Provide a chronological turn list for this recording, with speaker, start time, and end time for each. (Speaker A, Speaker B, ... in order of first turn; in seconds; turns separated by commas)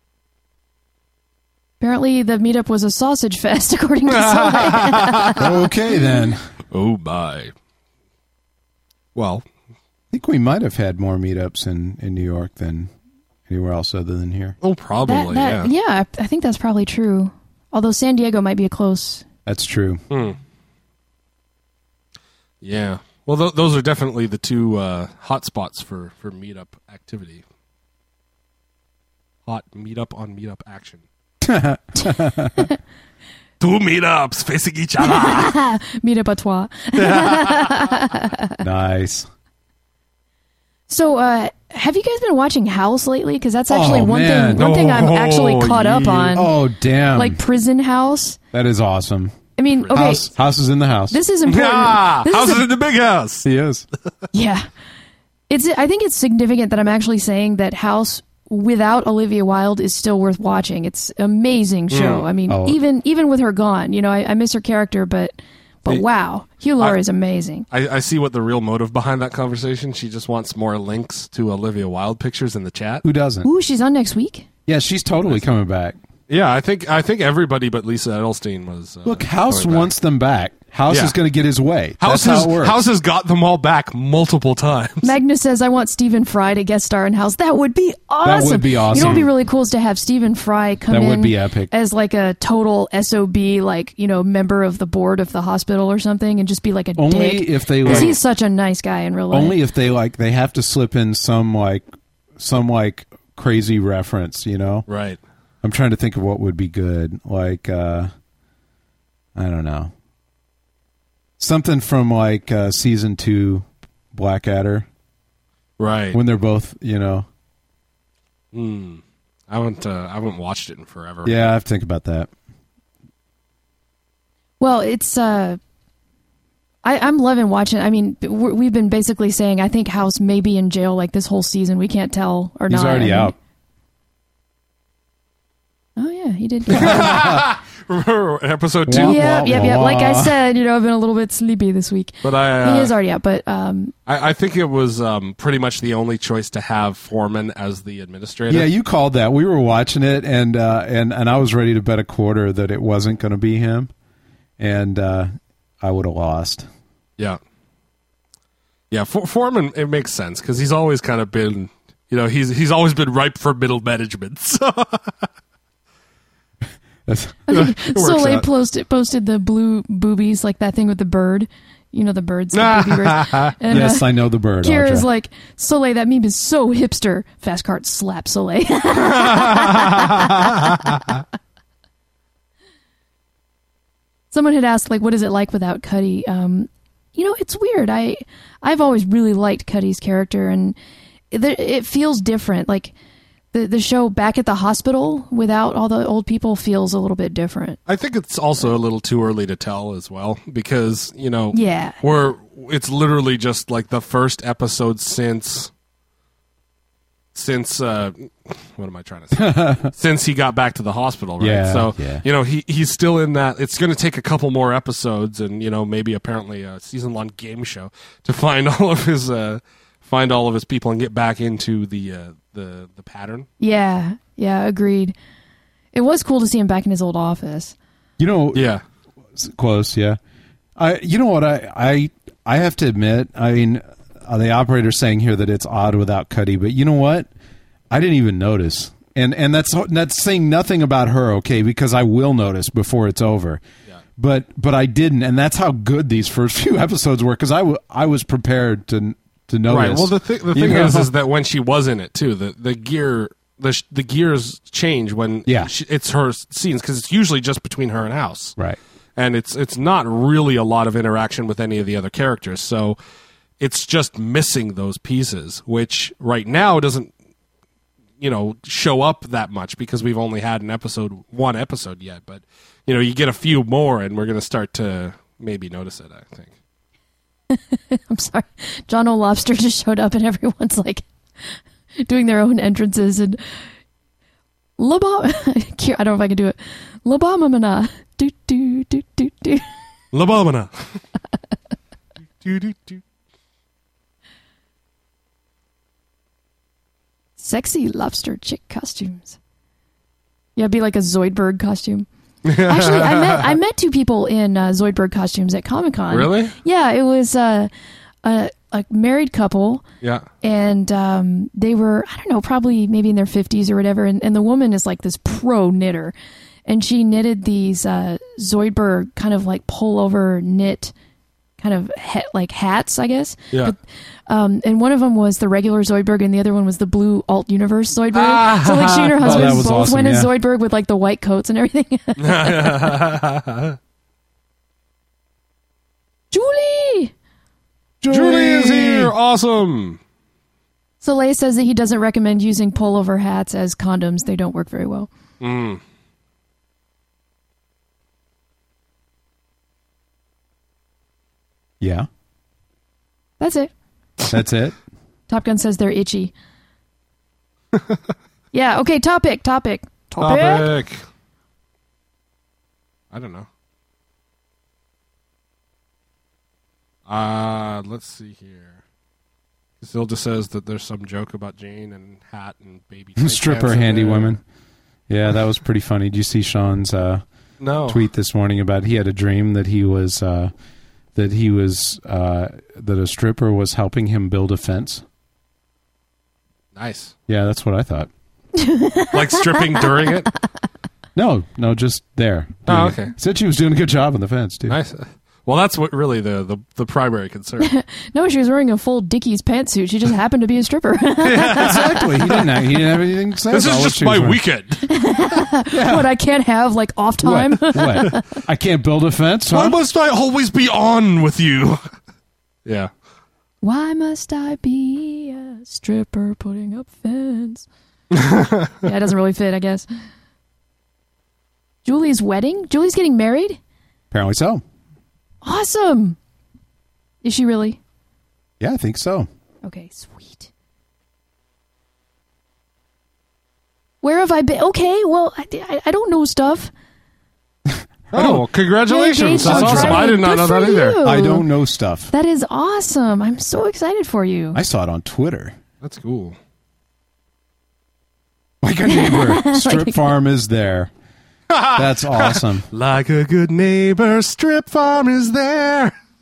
Speaker A: 1.8-6.2, Speaker B: 4.1-5.4, Speaker C: 5.4-6.4, Speaker B: 6.7-7.5, Speaker B: 9.2-9.4, Speaker C: 10.1-12.9, Speaker C: 13.5-14.6, Speaker B: 14.6-15.7, Speaker A: 15.1-19.2, Speaker C: 19.5-20.0, Speaker B: 20.1-20.4, Speaker B: 22.6-27.4, Speaker B: 29.5-31.0, Speaker C: 31.4-32.6, Speaker A: 32.0-32.7, Speaker B: 33.6-35.5, Speaker A: 35.0-38.6, Speaker B: 37.0-37.9, Speaker C: 38.6-39.3, Speaker A: 40.9-46.5, Speaker C: 43.7-44.7, Speaker B: 44.5-46.4, Speaker C: 46.3-47.4, Speaker A: 47.1-48.4, Speaker C: 48.5-49.4, Speaker A: 49.6-50.3, Speaker B: 49.9-50.2, Speaker C: 49.9-51.2, Speaker A: 51.1-52.6, Speaker B: 51.5-53.5, Speaker C: 53.5-53.9, Speaker A: 54.3-54.7, Speaker A: 55.5-67.7, Speaker B: 61.9-62.2, Speaker C: 62.5-62.8, Speaker B: 67.7-73.0, Speaker C: 73.0-73.5, Speaker A: 73.4-74.5, Speaker C: 74.7-76.0, Speaker B: 76.3-79.9, Speaker C: 79.0-82.8, Speaker B: 80.9-81.2, Speaker B: 82.0-85.1, Speaker A: 85.0-99.6, Speaker C: 88.2-89.3, Speaker B: 88.9-89.3, Speaker C: 90.9-91.7, Speaker C: 97.0-98.2, Speaker B: 97.8-98.2, Speaker C: 99.3-104.9, Speaker B: 104.9-105.2, Speaker C: 105.6-108.1, Speaker C: 109.4-109.9, Speaker C: 111.4-114.9, Speaker B: 115.8-116.2, Speaker C: 116.1-117.3, Speaker B: 118.5-121.4, Speaker C: 121.2-122.3, Speaker A: 124.6-125.6, Speaker A: 126.8-133.3, Speaker C: 132.7-133.4, Speaker A: 136.0-137.2, Speaker C: 136.7-137.5, Speaker B: 136.7-139.8, Speaker C: 138.9-140.4, Speaker A: 139.0-143.9, Speaker B: 142.2-142.9, Speaker B: 144.1-148.7, Speaker C: 148.5-153.9, Speaker C: 154.6-155.3, Speaker C: 155.8-156.7, Speaker B: 158.9-165.1, Speaker C: 167.1-167.4, Speaker A: 167.5-181.0, Speaker B: 167.5-168.5, Speaker B: 172.5-173.6, Speaker C: 173.7-175.1, Speaker B: 179.2-180.0, Speaker A: 184.3-190.8, Speaker A: 191.3-192.9, Speaker A: 193.5-197.8, Speaker B: 197.9-205.7, Speaker A: 201.5-202.0, Speaker B: 207.3-223.5, Speaker C: 209.3-209.9, Speaker C: 211.4-212.2, Speaker A: 223.6-225.2, Speaker A: 225.9-227.7, Speaker C: 228.2-228.7, Speaker B: 228.5-228.8, Speaker C: 229.4-230.2, Speaker C: 230.8-237.3, Speaker C: 237.9-243.6, Speaker C: 244.2-251.1, Speaker B: 249.7-258.6, Speaker C: 255.5-255.7, Speaker B: 259.2-263.0, Speaker B: 263.6-267.1, Speaker B: 268.2-276.5, Speaker A: 277.5-281.1, Speaker A: 282.0-283.4, Speaker A: 284.8-289.7, Speaker B: 290.1-291.0, Speaker B: 292.4-293.0, Speaker A: 297.4-299.4, Speaker A: 300.6-307.7, Speaker B: 302.5-303.6, Speaker B: 306.1-306.6, Speaker A: 308.2-309.8, Speaker A: 310.4-316.1, Speaker A: 316.7-320.9, Speaker A: 321.6-333.0, Speaker B: 328.1-329.6, Speaker C: 329.2-330.3, Speaker B: 332.2-333.8, Speaker A: 336.3-337.1, Speaker C: 338.0-339.1, Speaker B: 338.1-340.0, Speaker A: 341.0-345.1, Speaker B: 345.4-345.8, Speaker C: 351.8-352.1, Speaker A: 353.4-353.7, Speaker C: 354.3-354.8, Speaker A: 355.3-356.3, Speaker A: 358.5-360.7, Speaker B: 360.2-361.0, Speaker B: 363.1-363.5, Speaker B: 367.1-368.8, Speaker B: 369.8-374.4, Speaker C: 373.2-374.4, Speaker C: 375.1-377.2, Speaker B: 377.6-378.0, Speaker C: 377.9-380.5, Speaker C: 381.1-385.0, Speaker B: 386.8-387.1, Speaker C: 387.3-388.1, Speaker A: 388.6-389.8, Speaker B: 389.1-390.3, Speaker C: 391.1-394.8, Speaker B: 392.7-393.1, Speaker B: 394.7-397.7, Speaker A: 397.6-402.3, Speaker B: 401.2-401.8, Speaker C: 401.5-404.4, Speaker B: 403.5-404.9, Speaker A: 404.9-408.2, Speaker C: 405.8-406.1, Speaker C: 407.2-409.8, Speaker B: 409.5-411.8, Speaker A: 413.6-417.7, Speaker B: 418.1-418.8, Speaker A: 418.8-419.9, Speaker A: 421.9-423.6, Speaker C: 424.1-424.6, Speaker A: 425.4-426.2, Speaker A: 427.2-427.8, Speaker C: 428.6-429.3, Speaker A: 429.6-430.5, Speaker A: 434.0-436.7, Speaker C: 437.7-438.4, Speaker B: 438.1-441.0, Speaker A: 438.9-441.5, Speaker C: 439.4-440.1, Speaker C: 441.0-442.1, Speaker A: 442.1-444.6, Speaker C: 444.5-445.6, Speaker B: 445.8-446.4, Speaker C: 448.6-450.9, Speaker A: 448.9-450.1, Speaker B: 451.5-455.9, Speaker C: 451.7-452.7